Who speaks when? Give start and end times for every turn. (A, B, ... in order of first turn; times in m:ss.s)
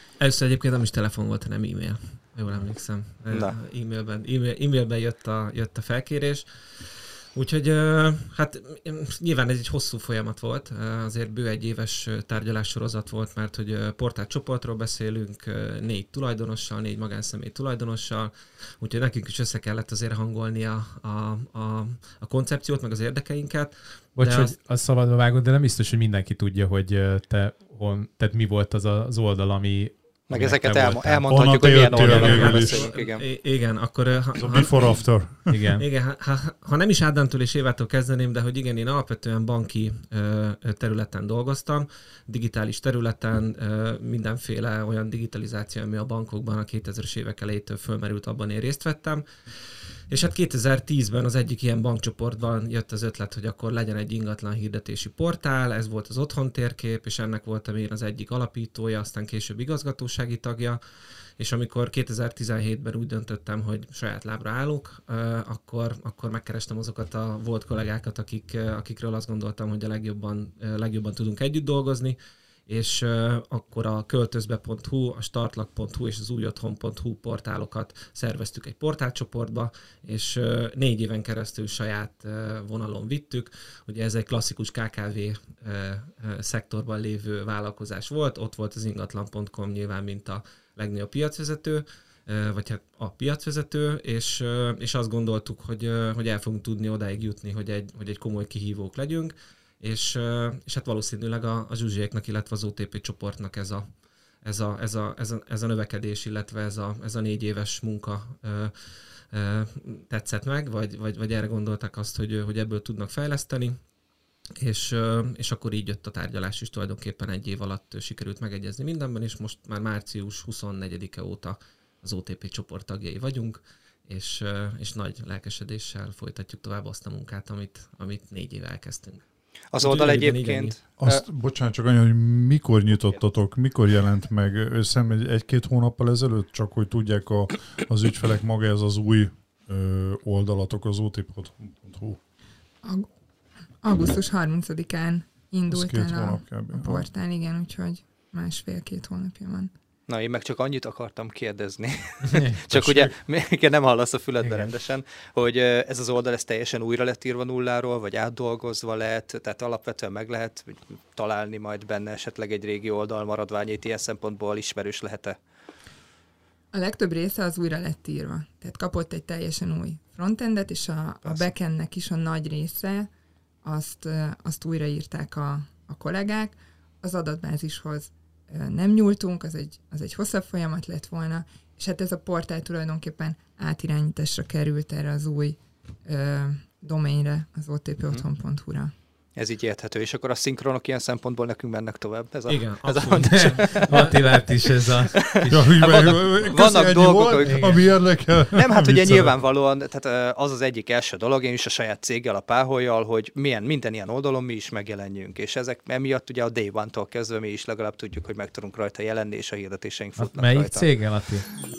0:00.2-0:24.5 A
0:03.3-0:03.6 B
0:24.2-0:32.4 C
0:30.3-0:33.2 B
0:31.3-0:32.9 D
0:32.0-0:35.2 A
0:34.4-0:35.5 D
0:35.5-0:35.8 C
0:35.8-1:00.8 A
1:01.4-1:43.8 A
1:44.4-1:53.8 A
1:54.6-2:09.2 A
2:09.7-2:11.2 B
2:09.8-2:10.7 A
2:11.0-2:22.2 D
2:23.8-2:29.7 E
2:25.7-2:27.0 D
2:30.1-2:45.4 B
2:32.2-2:32.8 C
2:34.4-2:34.7 C
2:46.7-2:53.1 E
2:53.6-3:08.9 E
3:09.4-3:14.1 B
3:12.5-3:14.2 A
3:13.3-3:15.8 C
3:15.1-3:17.8 B
3:15.5-3:19.3 D
3:17.4-3:17.8 C
3:18.5-3:30.9 B
3:30.2-3:31.6 C